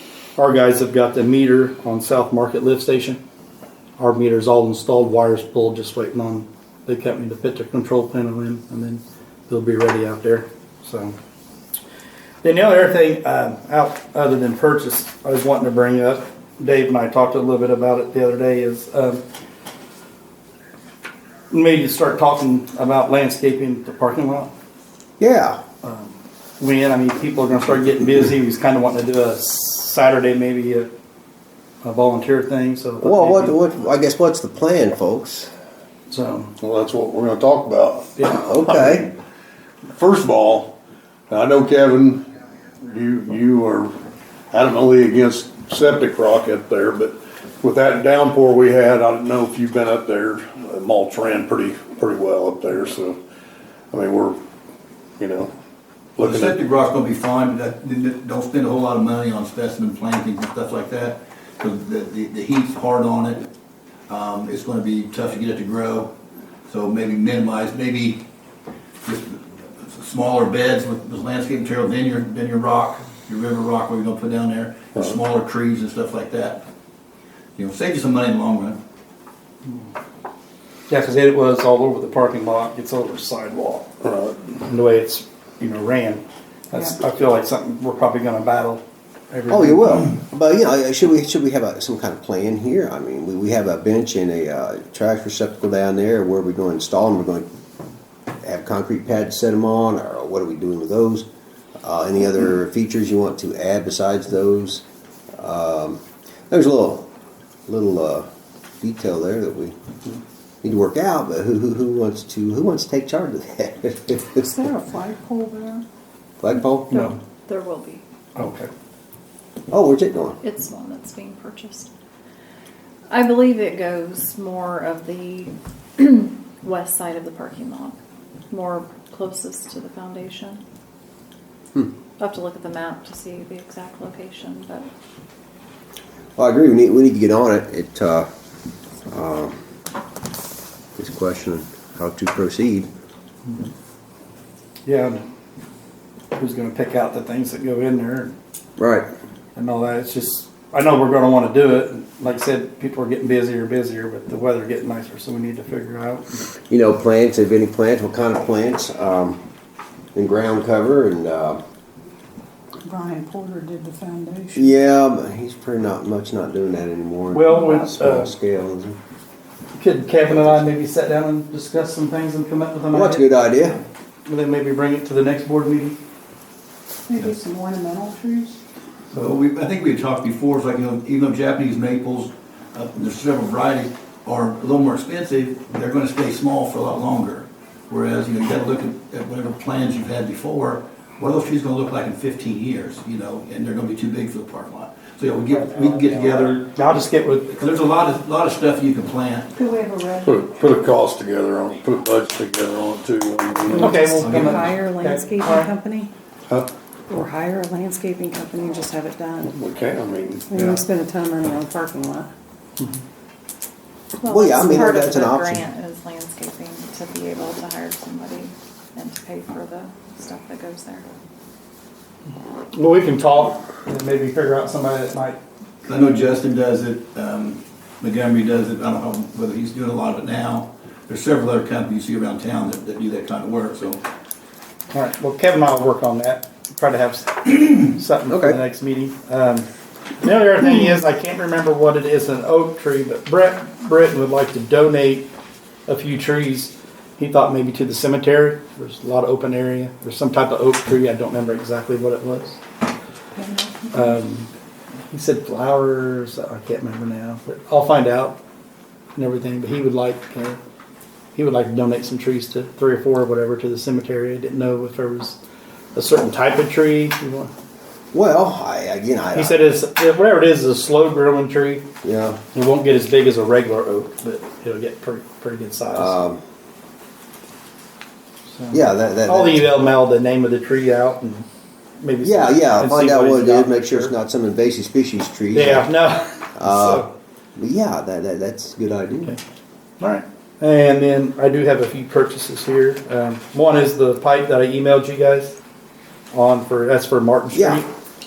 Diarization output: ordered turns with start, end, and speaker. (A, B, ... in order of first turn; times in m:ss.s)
0:00.4-0:03.2 A
0:04.0-0:11.2 A
0:12.4-0:19.2 A
0:21.5-0:24.5 A
0:25.2-0:25.6 B
0:25.8-0:30.9 A
0:31.8-0:33.6 A
0:33.0-0:35.5 B
0:36.1-0:36.5 A
0:36.6-0:39.0 C
0:38.2-0:39.0 A
0:38.4-0:39.1 B
0:39.9-0:40.8 C
0:41.3-0:42.2 C
0:42.8-0:44.0 C
0:44.5-0:53.2 C
0:53.9-0:54.4 C
0:55.2-0:55.5 C
0:56.2-0:56.6 C
0:56.2-1:03.5 D
1:04.1-1:06.1 D
1:06.7-1:08.2 D
1:09.0-1:16.7 D
1:17.6-1:18.8 D
1:20.9-1:23.9 A
1:24.0-1:24.4 C
1:24.7-1:30.1 A
1:29.5-1:37.5 B
1:38.4-1:41.2 B
1:41.8-1:47.1 B
1:47.7-1:48.3 B
1:48.8-1:49.7 B
1:50.6-1:54.5 B
1:54.4-1:55.8 E
1:56.4-1:56.9 B
1:56.9-1:58.0 F
1:58.4-1:58.7 A
1:59.7-2:00.4 B
2:00.4-2:01.9 F
2:03.1-2:08.0 F
2:08.5-2:10.6 F
2:12.2-2:14.9 F
2:16.4-2:18.3 B
2:19.1-2:19.6 B
2:21.0-2:22.9 B
2:24.9-2:25.2 A
2:26.4-2:28.4 A
2:28.8-2:29.1 B
2:29.6-2:36.4 A
2:36.7-2:39.4 B
2:40.2-2:41.6 B
2:42.8-2:44.8 E
2:44.6-2:49.0 B
2:47.3-2:48.3 A
2:49.8-2:53.2 A
2:50.3-2:50.7 B
2:52.9-2:53.8 B
2:54.3-2:56.0 A
2:57.1-2:58.6 E
2:59.1-3:16.8 D
3:16.7-3:17.7 A
3:17.5-3:19.5 D
3:19.6-3:20.4 E
3:20.2-3:24.0 C
3:23.7-3:25.7 A
3:23.8-3:26.1 E
3:24.1-3:24.8 D
3:27.1-3:29.5 E
3:29.5-3:30.6 C
3:30.5-3:32.3 E
3:34.2-3:41.1 F
3:34.3-3:35.6 B
3:42.7-3:45.4 A
3:45.9-3:54.0 D
3:54.9-3:59.7 A
3:58.3-3:58.6 B
4:00.2-4:05.3 A
4:05.9-4:12.6 A
4:13.4-4:14.1 E
4:13.9-4:14.5 A
4:15.1-4:18.4 A
4:19.2-4:20.6 A
4:21.4-4:25.4 A
4:26.0-4:27.5 A
4:28.1-4:29.6 B
4:29.3-4:31.9 A
4:32.0-4:32.4 B
4:32.5-4:36.2 A
4:35.9-4:36.4 B
4:38.5-4:41.5 A
4:38.7-4:39.7 B
4:42.0-4:44.1 A
4:42.2-4:45.9 B
4:45.5-4:47.1 A
4:46.6-4:49.4 B
4:50.0-4:55.6 A
4:56.3-4:57.9 A
4:57.5-4:57.8 B